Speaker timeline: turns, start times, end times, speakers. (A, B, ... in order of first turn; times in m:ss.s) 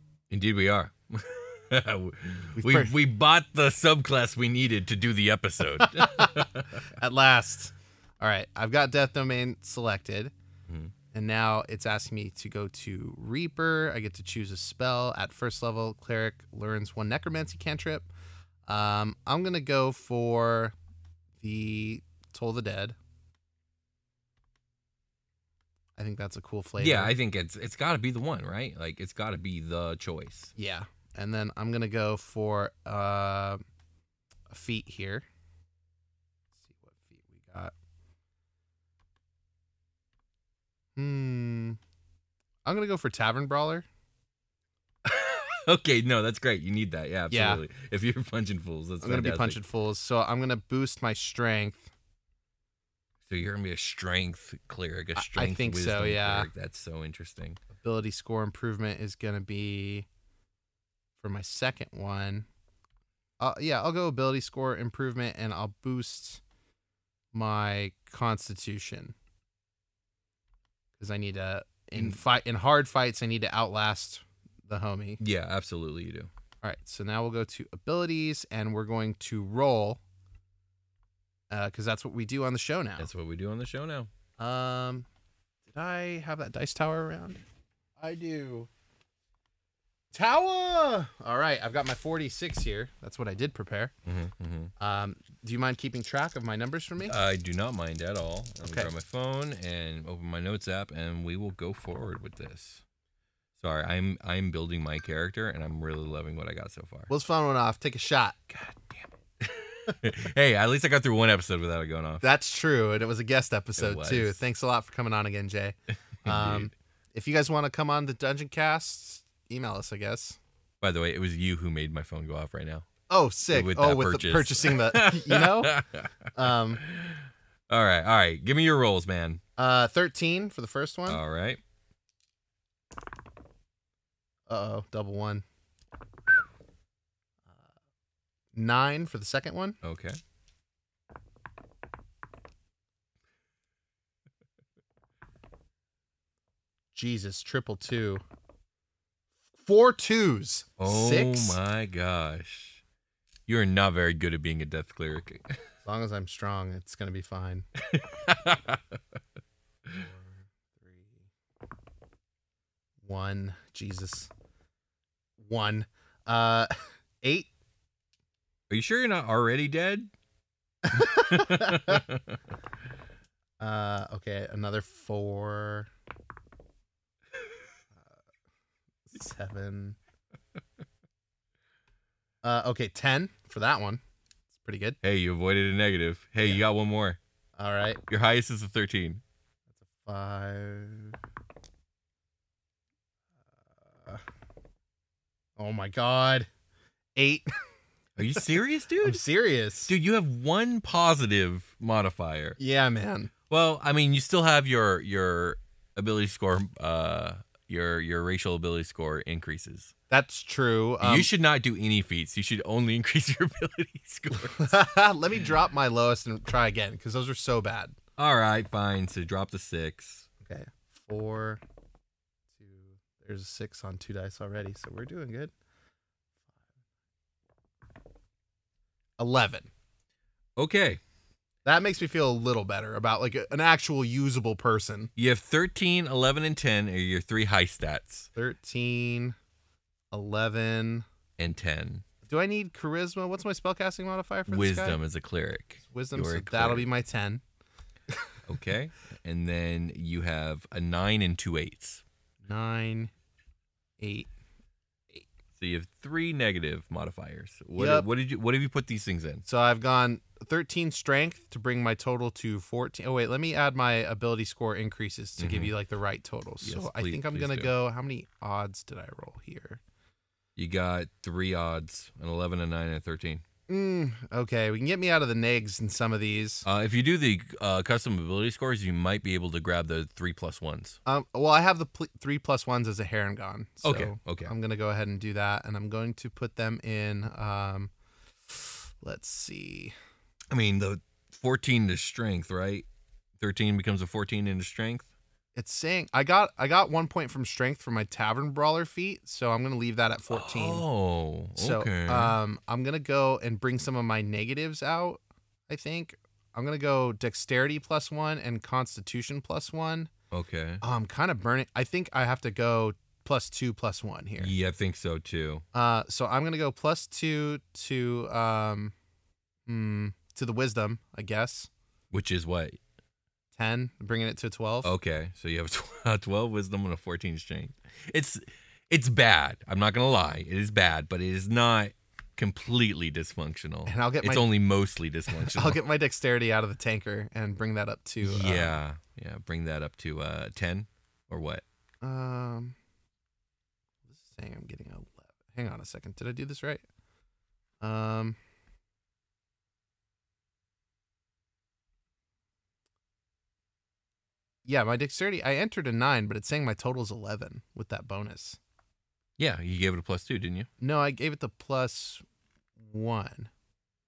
0:00.3-0:06.8 A
0:02.6-0:02.9 B
0:05.8-0:10.3 B
0:10.7-0:10.9 A
0:11.1-0:18.1 B
0:18.7-0:20.7 B
0:21.4-0:23.0 B
0:26.0-0:27.1 B
0:26.8-0:30.5 A
0:30.6-0:33.6 B
0:34.5-0:35.2 B
0:36.7-0:37.7 B
0:41.0-0:41.8 B
0:42.6-0:43.8 B
0:45.0-0:49.6 A
0:47.3-0:47.6 B
0:49.0-0:51.9 B
0:53.2-0:57.6 A
0:55.2-0:56.5 B
0:57.8-1:00.1 B
1:01.2-1:02.5 B
1:03.4-1:06.4 B
1:07.3-1:09.1 B
1:11.0-1:15.2 B
1:15.2-1:16.3 A
1:16.6-1:20.0 B
1:21.5-1:23.1 B
1:23.0-1:24.1 A
1:24.4-1:25.0 B
1:25.7-1:27.4 B
1:28.0-1:28.7 B
1:30.1-1:33.9 B
1:34.0-1:34.7 A
1:34.8-1:37.2 B
1:37.0-1:42.8 A
1:38.6-1:38.9 B
1:43.6-1:47.1 A
1:47.1-1:48.5 B
1:48.5-1:52.2 A
1:52.2-2:00.4 B
1:53.8-1:54.4 A
1:56.2-1:56.7 A
2:00.8-2:02.9 A
2:03.1-2:05.8 B
2:03.5-2:09.4 A
2:06.3-2:06.8 B
2:09.6-2:11.2 B
2:11.1-2:11.6 A
2:14.5-2:15.4 B
2:18.5-2:19.8 B
2:19.8-2:20.2 A
2:26.9-2:28.2 B
2:29.6-2:31.6 B
2:30.8-2:32.8 A
2:33.5-2:35.6 A
2:35.8-2:37.6 B
2:37.8-2:39.0 A
2:39.9-2:40.2 B
2:40.8-2:41.2 B
2:43.0-2:44.3 B
2:45.4-2:46.7 B
2:47.2-2:47.5 B
2:48.7-2:50.1 A
2:50.9-2:52.0 B
2:50.9-2:52.4 A
2:53.6-2:55.9 B
2:59.1-3:00.0 B
3:02.4-3:04.0 B
3:04.5-3:05.0 B
3:05.0-3:07.2 A
3:07.6-3:08.0 B
3:08.1-3:09.2 A
3:10.0-3:11.2 B
3:15.6-3:16.5 B
3:17.2-3:17.5 B
3:18.2-3:19.2 A
3:19.0-3:19.9 B
3:19.9-3:22.6 A
3:22.6-3:23.3 B
3:23.5-3:29.9 A
3:30.1-3:31.3 B
3:31.0-3:34.8 A
3:34.5-3:37.9 B
3:38.2-3:40.3 A
3:40.4-3:41.6 B
3:42.6-3:45.5 B
3:49.2-3:49.7 B
3:50.6-3:51.0 A
3:51.6-3:55.1 B
3:55.2-3:58.3 A
3:58.3-3:59.4 B
4:00.1-4:01.0 B
4:01.4-4:02.0 A
4:02.2-4:05.0 B
4:04.5-4:06.9 A
4:05.9-4:07.4 B
4:08.5-4:12.0 A
4:12.4-4:13.1 B
4:14.0-4:14.3 B
4:15.6-4:19.4 A
4:17.8-4:18.1 B
4:19.4-4:29.8 B
4:25.4-4:25.7 A
4:26.6-4:27.7 A
4:30.6-4:33.4 A
4:33.7-4:36.6 B
4:36.6-4:41.0 A
4:41.0-4:47.9 B
4:43.8-4:44.5 A
4:48.5-4:49.9 B
4:50.5-4:52.9 A
4:53.4-4:55.1 A
4:55.5-5:00.8 B
5:00.3-5:02.4 A
5:01.6-5:10.1 B
5:10.3-5:10.8 A
5:10.8-5:14.5 B
5:14.4-5:15.6 A
5:15.7-5:18.9 B
5:19.7-5:21.7 B
5:22.1-5:22.8 A
5:23.6-5:24.9 B
5:24.8-5:35.8 A
5:33.8-5:34.5 B
5:35.3-5:38.8 B
5:38.2-5:41.6 A
5:42.0-5:42.8 B
5:44.1-5:46.8 B
5:47.8-5:48.4 B
5:54.6-5:58.6 B
5:59.4-6:00.7 A
6:00.8-6:02.2 B
6:02.8-6:03.5 B